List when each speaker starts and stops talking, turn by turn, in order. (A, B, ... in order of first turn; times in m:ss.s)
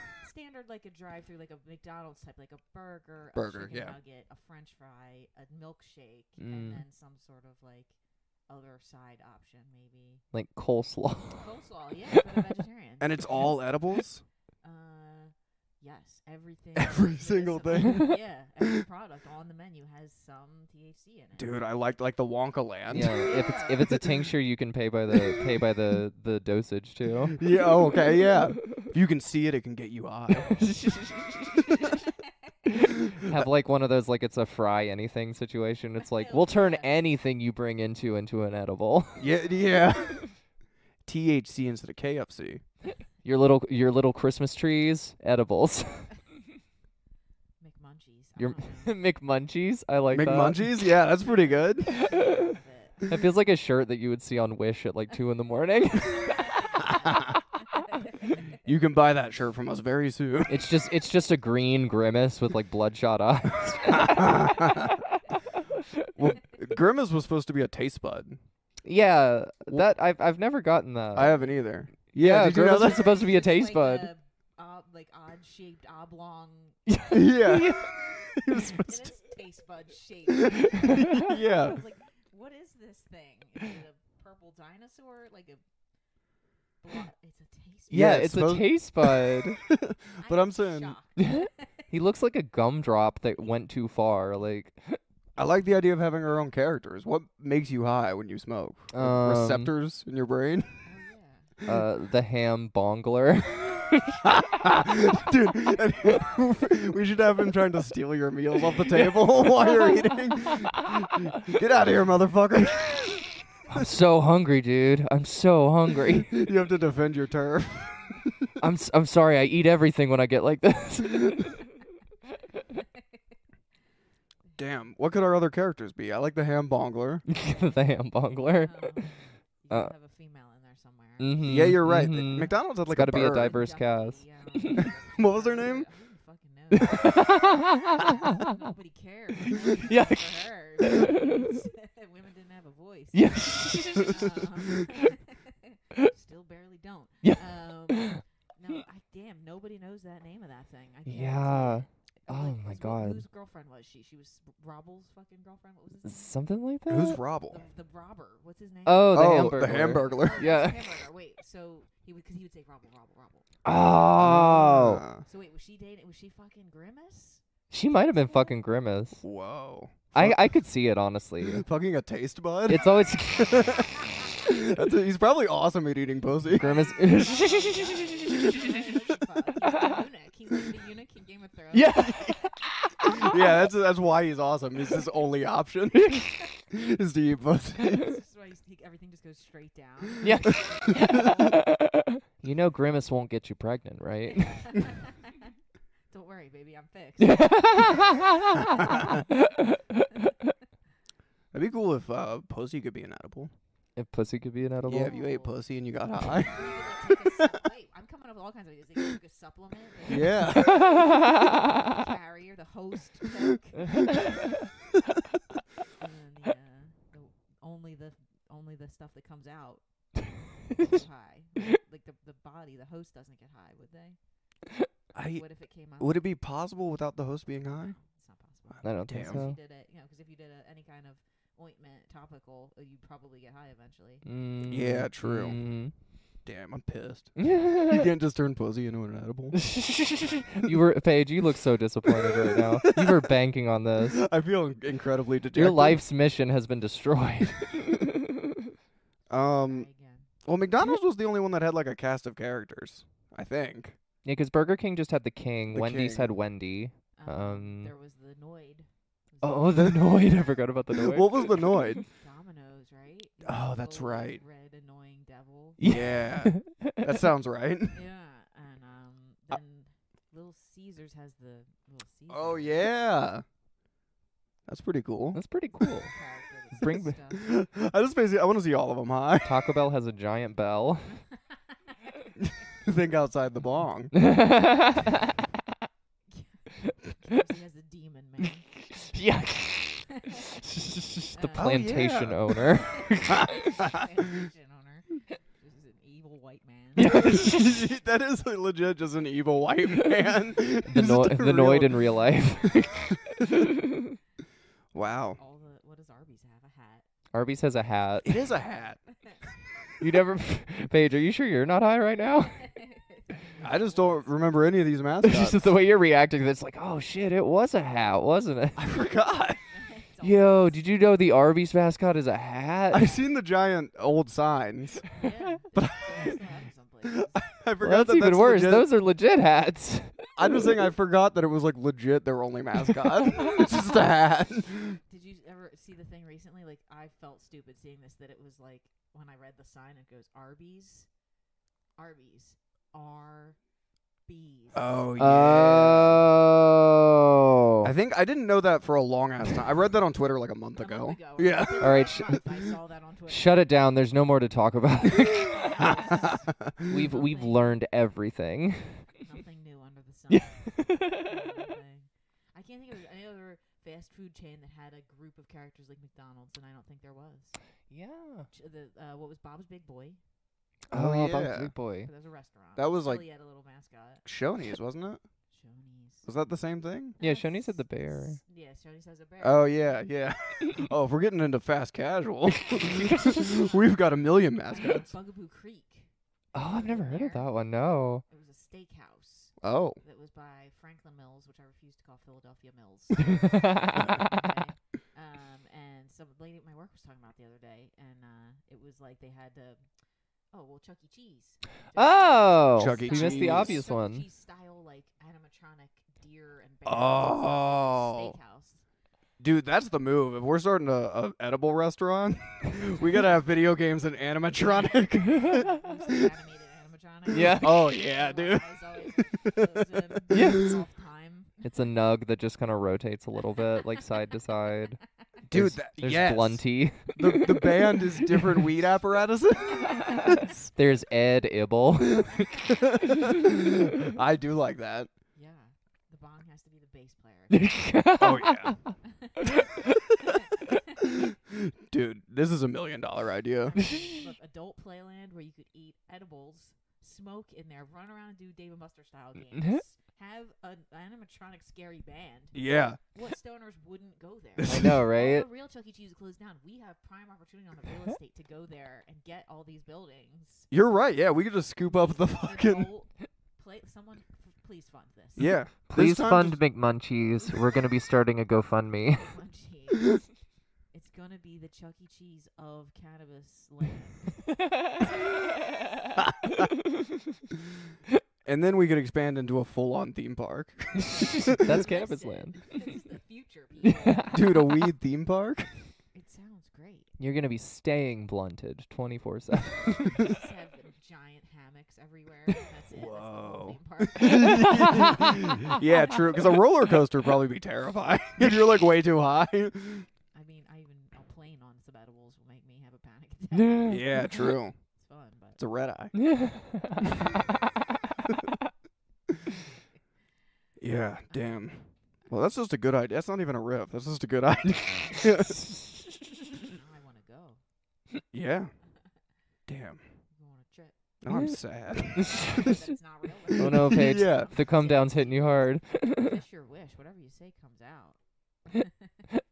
0:00.2-0:07.9 A
0:03.4-0:04.0 B
0:06.4-0:06.8 C
0:08.5-0:10.2 A
0:10.3-0:11.4 C
0:11.3-0:13.6 A
0:13.0-0:14.2 B
0:14.6-0:21.6 A
0:16.8-0:18.8 B
0:21.4-0:23.3 B
0:22.9-0:27.4 C
0:23.0-0:24.0 A
0:27.4-0:30.6 B
0:30.5-0:32.0 C
0:32.7-0:39.2 C
0:36.0-0:36.9 A
0:39.2-0:40.3 B
0:39.3-0:39.9 A
0:41.0-0:42.6 B
0:43.2-0:46.1 C
0:47.6-0:49.0 A
0:48.4-0:50.8 C
0:50.1-0:52.0 B
0:51.2-0:53.0 A
0:52.1-0:52.5 C
0:53.1-0:56.7 C
0:56.2-0:58.4 A
0:58.6-1:00.6 B
1:00.5-1:04.8 C
1:04.0-1:04.9 B
1:06.2-1:08.4 B
1:08.8-1:11.4 C
1:11.2-1:13.1 B
1:12.1-1:14.1 C
1:12.9-1:17.0 A
1:16.9-1:17.9 C
1:17.1-1:19.2 B
1:18.8-1:25.6 A
1:20.4-1:21.8 B
1:26.8-1:28.3 A
1:27.9-1:31.0 B
1:27.9-1:29.6 C
1:30.2-1:31.7 A
1:31.2-1:35.0 C
1:35.4-1:40.8 B
1:38.9-1:39.7 C
1:40.8-1:41.5 A
1:41.7-1:44.2 C
1:44.2-1:53.8 B
1:53.7-1:56.4 C
1:56.3-1:58.5 B
1:58.6-2:01.6 C
2:04.6-2:07.3 B
2:07.3-2:09.1 C
2:08.6-2:12.6 A
2:11.2-2:14.8 C
2:11.4-2:13.6 B
2:13.2-2:17.4 A
2:14.8-2:15.9 B
2:16.7-2:18.4 C
2:18.0-2:36.4 A
2:19.7-2:21.2 C
2:23.1-2:24.2 C
2:27.2-2:28.2 C
2:31.1-2:33.2 C
2:36.0-2:37.2 C
2:36.9-2:37.6 B
2:37.5-2:43.5 A
2:38.8-2:41.0 C
2:39.1-2:40.5 B
2:43.6-2:45.0 C
2:44.2-2:45.2 B
2:45.2-2:47.4 A
2:47.7-2:49.2 C
2:48.0-2:48.6 A
2:49.2-2:50.5 B
2:50.1-2:51.6 C
2:51.5-2:52.8 B
2:52.7-2:53.7 C
2:53.4-2:56.7 B
2:56.5-3:02.3 A
2:56.6-2:58.8 C
2:59.6-3:00.0 C
3:01.7-3:03.3 C
3:03.2-3:08.1 B
3:07.8-3:11.6 A
3:10.2-3:14.7 C
3:10.9-3:11.3 B
3:14.3-3:15.5 A
3:16.1-3:17.7 A
3:17.2-3:20.0 C
3:21.5-3:23.5 B
3:24.0-3:25.1 C
3:24.9-3:26.6 B
3:25.0-3:25.6 A
3:26.2-3:31.1 A
3:30.1-3:30.9 B
3:31.8-3:34.2 A
3:36.0-3:44.2 A
3:45.2-3:48.0 B
3:45.3-3:46.2 A
3:47.8-3:54.3 A
3:48.7-3:49.4 B
3:48.8-3:49.6 C
3:54.2-3:55.9 C
3:54.7-3:55.6 B
3:56.5-3:59.6 B
3:57.4-3:58.1 C
3:59.5-4:04.2 C
4:02.8-4:03.2 B
4:04.2-4:06.0 B
4:05.6-4:08.1 C
4:09.3-4:09.9 B
4:09.3-4:10.3 A
4:10.4-4:14.0 B
4:14.2-4:17.9 C
4:15.7-4:16.3 B
4:17.1-4:20.5 A
4:19.4-4:22.0 C
4:20.9-4:22.0 B
4:22.0-4:26.2 A
4:23.4-4:24.4 B
4:25.8-4:27.0 C
4:25.8-4:28.0 B
4:27.9-4:32.9 A
4:32.3-4:33.4 B
4:34.7-4:35.4 B
4:35.3-4:36.2 C
4:36.0-4:37.4 A
4:36.8-4:37.2 C
4:37.3-4:39.5 B
4:39.4-4:41.2 C
4:42.4-4:44.2 B
4:44.2-4:45.4 C
4:46.3-4:48.8 A
4:49.1-4:53.6 C
4:51.3-4:51.9 A
4:51.5-4:52.4 B
4:52.9-4:57.2 A
4:53.3-4:54.0 B
4:57.0-4:57.9 C
4:57.0-5:02.0 B
5:00.9-5:03.6 C
5:04.9-5:05.4 B
5:05.4-5:07.0 A
5:07.3-5:08.3 C
5:08.2-5:09.0 B
5:10.0-5:12.6 C
5:12.6-5:14.7 A
5:13.6-5:15.6 B
5:15.2-5:18.8 C
5:18.8-5:19.6 B
5:19.7-5:20.8 A
5:20.2-5:23.0 C
5:22.9-5:25.1 B
5:25.1-5:27.4 A
5:25.2-5:25.6 C
5:25.7-5:26.4 B
5:27.0-5:28.9 B
5:27.8-5:30.3 C
5:30.4-5:35.0 B
5:35.1-5:41.1 A
5:42.0-5:43.6 A
5:44.3-5:45.1 A
5:44.7-5:46.3 B
5:45.2-5:47.9 C
5:47.8-5:52.1 B
5:50.8-5:53.8 A
5:51.8-5:52.4 C
5:53.3-5:55.7 C
5:55.2-5:57.8 A
5:56.9-5:59.1 C
5:59.2-6:07.6 A
6:00.3-6:01.1 C
6:07.9-6:08.5 C
6:08.5-6:10.2 A
6:10.9-6:11.7 B
6:10.9-6:12.1 C
6:12.0-6:14.2 A
6:12.8-6:13.3 B
6:14.2-6:15.2 B
6:15.5-6:16.3 A
6:16.3-6:17.2 B
6:17.2-6:20.1 A
6:17.2-6:18.4 C
6:19.4-6:25.1 B
6:23.2-6:24.0 A
6:24.7-6:27.5 A
6:26.5-6:28.2 C
6:28.2-6:39.8 A
6:29.6-6:30.0 B
6:33.3-6:34.5 C
6:40.5-6:48.8 A
6:42.0-6:44.3 C
6:42.8-6:43.8 B
6:46.9-6:48.4 B
6:49.4-6:56.2 B
6:54.6-7:01.7 A
6:57.3-6:57.8 C
6:57.5-7:00.6 B
7:00.3-7:00.7 C
7:01.6-7:05.0 C
7:05.5-7:10.5 B
7:05.5-7:07.8 C
7:10.1-7:12.4 C
7:12.7-7:15.1 B
7:15.4-7:17.9 A
7:17.5-7:18.8 C
7:18.2-7:18.8 B
7:19.1-7:19.7 A
7:20.2-7:20.5 A
7:21.5-7:23.8 B
7:23.7-7:32.6 A
7:29.6-7:29.8 C
7:32.5-7:33.0 B
7:33.1-7:40.7 A
7:34.6-7:35.5 C
7:34.7-7:35.0 B
7:40.7-7:42.9 B
7:42.4-7:45.6 A
7:45.4-7:46.6 B
7:45.9-7:49.3 C
7:49.2-7:50.3 A
7:50.9-7:55.1 A
7:58.4-8:01.6 B
8:01.0-8:02.8 C
8:01.0-8:04.6 A
8:03.8-8:04.6 C
8:04.3-8:05.7 B
8:06.1-8:07.1 A
8:07.2-8:10.2 C
8:10.2-8:15.8 A
8:12.9-8:20.1 B
8:20.3-8:25.6 A
8:23.5-8:24.0 C
8:23.9-8:24.9 B
8:25.6-8:26.2 B
8:26.2-8:27.2 C
8:30.8-8:35.6 B
8:31.3-8:31.6 A
8:36.7-8:37.6 A
8:38.3-8:38.7 B
8:39.7-8:40.0 B
8:40.3-8:41.0 A
8:41.2-8:42.8 B
8:41.3-8:41.6 C
8:42.2-8:49.2 A
8:42.2-8:42.6 C
8:43.5-8:44.5 B
8:43.6-8:46.4 C